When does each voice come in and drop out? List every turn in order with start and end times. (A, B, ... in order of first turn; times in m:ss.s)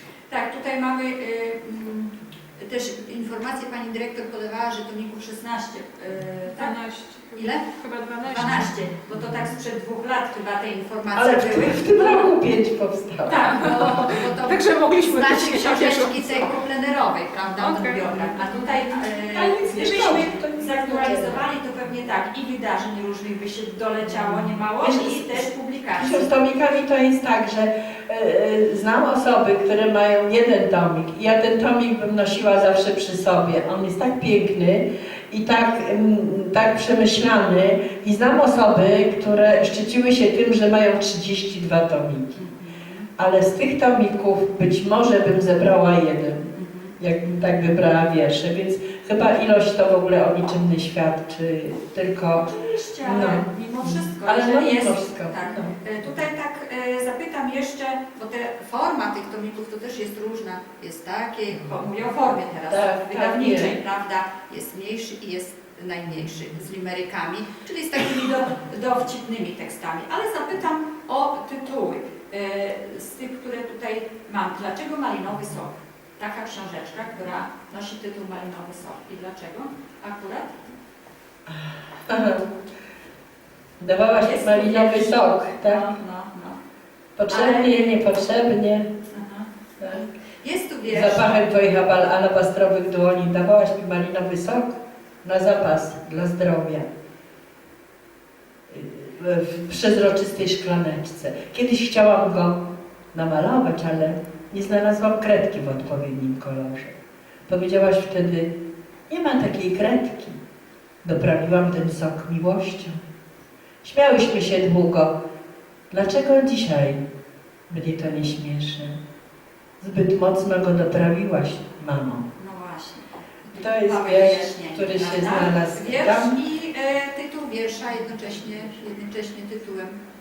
0:00.3-0:06.8 A
0:06.6-0:08.7 B
0:07.4-0:07.7 A
0:08.2-0:12.3 A
0:11.1-0:14.0 C
0:13.3-0:26.3 A
0:13.4-0:16.5 B
0:17.5-0:21.4 B
0:24.8-0:42.4 C
0:42.3-0:43.1 A
0:43.2-0:55.8 C
0:46.5-0:47.0 A
0:52.4-1:20.6 A
1:02.7-1:03.8 C
1:21.5-1:22.4 C
1:23.8-1:25.9 C
1:24.2-1:26.6 A
1:27.2-1:28.9 C
1:27.3-1:28.0 A
1:29.0-1:31.3 A
1:29.8-1:30.0 C
1:30.9-1:36.9 C
1:38.7-1:47.0 C
1:47.5-1:48.5 C
1:49.1-1:50.4 C
1:51.0-1:53.0 C
1:53.8-1:55.1 C
1:55.9-1:57.0 C
1:57.7-1:59.0 C
1:59.8-2:02.3 C
2:02.4-2:10.0 A
2:03.5-2:06.4 C